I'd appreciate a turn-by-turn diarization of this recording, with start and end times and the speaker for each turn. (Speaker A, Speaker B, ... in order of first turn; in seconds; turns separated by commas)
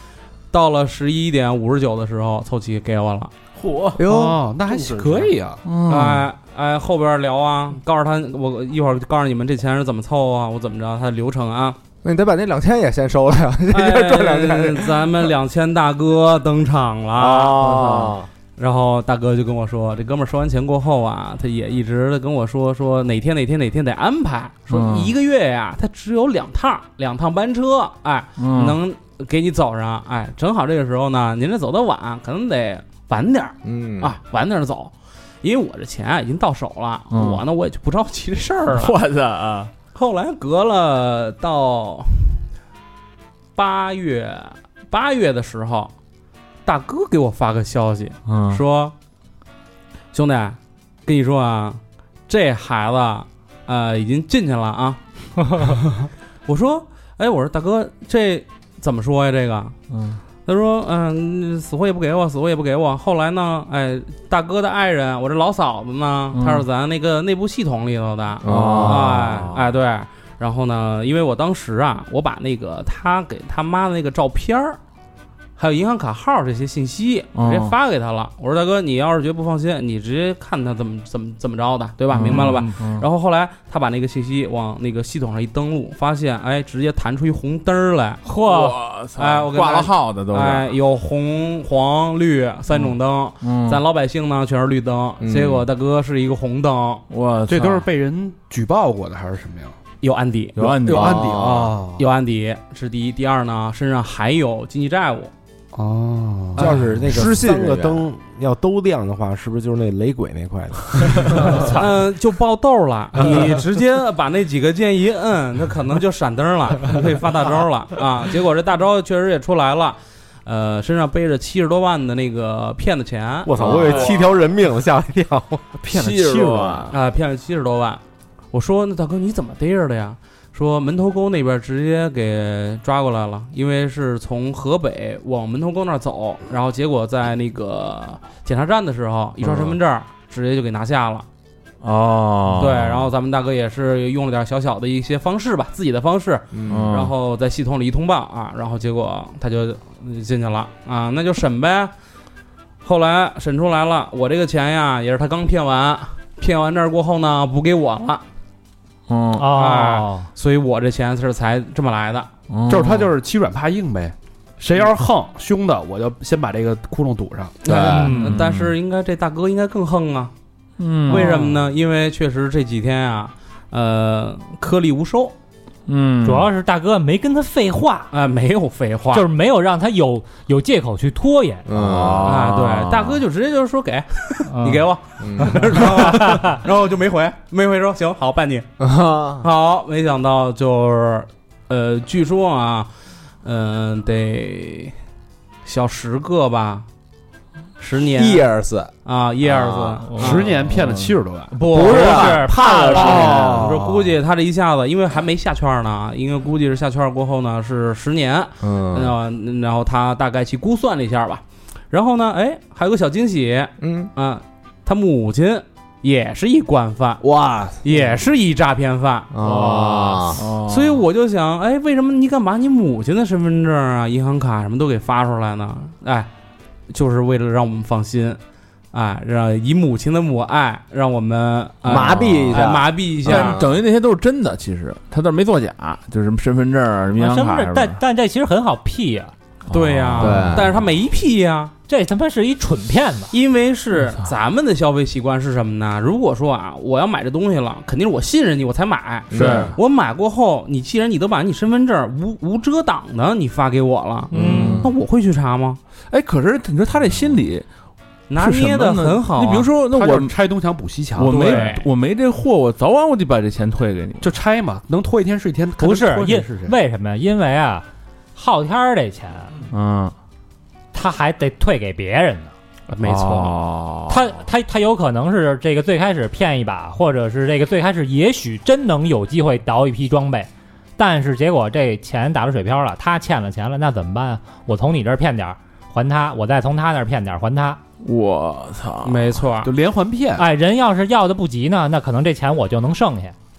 Speaker A: 0.5-3.3, Speaker B: 3.6-4.0, Speaker C: 4.0-4.4, Speaker D: 4.0-5.6, Speaker B: 5.0-6.3, Speaker A: 5.9-11.8, Speaker C: 12.0-15.2, Speaker A: 13.7-17.9, Speaker C: 17.2-18.3, Speaker B: 17.6-18.1, Speaker A: 18.6-38.9, Speaker B: 24.7-25.1, Speaker B: 28.4-28.8, Speaker C: 33.6-34.2, Speaker B: 37.1-37.4, Speaker B: 38.7-39.7, Speaker A: 39.9-42.4, Speaker A: 43.5-45.9, Speaker A: 46.7-48.9, Speaker B: 48.2-48.6, Speaker A: 50.1-55.0, Speaker A: 56.5-59.8, Speaker B: 59.9-60.2, Speaker A: 60.5-74.8, Speaker B: 66.3-66.7, Speaker C: 68.4-69.2, Speaker B: 68.4-69.7, Speaker A: 75.6-97.0, Speaker B: 77.3-77.7, Speaker B: 82.1-83.1, Speaker E: 82.2-82.7, Speaker B: 88.3-90.7, Speaker B: 93.4-93.8, Speaker C: 95.2-95.7, Speaker B: 97.1-97.8, Speaker D: 97.5-99.8, Speaker A: 100.0-100.7, Speaker B: 100.6-101.3, Speaker D: 100.8-102.0, Speaker C: 100.9-101.8, Speaker A: 102.0-105.3, Speaker D: 105.7-106.8, Speaker F: 106.6-111.8, Speaker A: 106.6-106.9, Speaker C: 106.8-108.1, Speaker A: 111.6-124.0, Speaker F: 123.5-125.8, Speaker D: 123.6-124.2, Speaker B: 123.7-124.1, Speaker D: 125.8-126.9, Speaker B: 125.9-126.9, Speaker A: 126.9-141.3, Speaker B: 141.8-143.1, Speaker A: 142.5-151.9, Speaker C: 146.5-147.0, Speaker B: 146.7-147.1, Speaker A: 152.8-158.2, Speaker B: 159.1-159.5, Speaker E: 159.4-160.3, Speaker A: 159.5-162.3, Speaker B: 162.5-163.1, Speaker D: 162.7-167.9, Speaker A: 167.6-170.3, Speaker C: 167.7-167.9, Speaker E: 167.8-168.4, Speaker B: 168.1-168.7, Speaker B: 170.8-171.5, Speaker A: 171.1-175.3, Speaker E: 171.1-171.4, Speaker B: 175.9-176.5, Speaker E: 176.2-178.1, Speaker A: 178.1-179.3, Speaker E: 179.1-181.7, Speaker C: 181.7-182.4, Speaker B: 181.7-183.2, Speaker A: 182.2-188.7, Speaker E: 184.5-184.9, Speaker C: 185.2-186.2, Speaker E: 186.1-186.6, Speaker C: 188.8-189.5, Speaker A: 189.4-192.9, Speaker A: 193.4-194.9, Speaker A: 195.7-196.9, Speaker A: 197.8-198.5, Speaker C: 198.1-198.9, Speaker A: 199.1-200.5, Speaker D: 200.1-201.6, Speaker B: 200.7-201.2, Speaker A: 201.6-217.2, Speaker C: 201.7-204.0, Speaker E: 201.8-203.6, Speaker D: 203.3-203.6, Speaker C: 208.6-209.2, Speaker C: 213.8-214.1, Speaker C: 217.2-218.2, Speaker A: 217.8-219.3, Speaker C: 219.3-220.4, Speaker B: 219.4-221.0, Speaker A: 220.6-226.3, Speaker A: 226.9-228.4, Speaker A: 228.9-233.6, Speaker C: 231.9-233.7, Speaker B: 231.9-232.7, Speaker B: 233.2-238.0, Speaker E: 237.2-239.3, Speaker B: 239.7-240.7, Speaker A: 239.7-241.7, Speaker C: 240.2-240.7, Speaker E: 241.9-243.3, Speaker A: 243.3-255.8, Speaker C: 249.3-249.8, Speaker B: 249.3-249.8, Speaker E: 254.3-254.8, Speaker C: 254.3-254.9, Speaker B: 254.4-254.8, Speaker B: 256.1-257.7, Speaker A: 258.3-259.7, Speaker B: 258.4-260.3, Speaker D: 259.9-261.8, Speaker B: 261.2-264.3, Speaker A: 261.2-261.9, Speaker D: 264.2-266.8, Speaker E: 265.8-267.9, Speaker E: 268.4-269.6, Speaker B: 269.7-270.1, Speaker E: 270.9-272.5, Speaker A: 272.9-273.6, Speaker B: 273.0-274.3, Speaker E: 274.1-287.8, Speaker B: 288.0-289.3, Speaker A: 289.0-289.7, Speaker D: 289.6-290.5, Speaker E: 290.4-293.3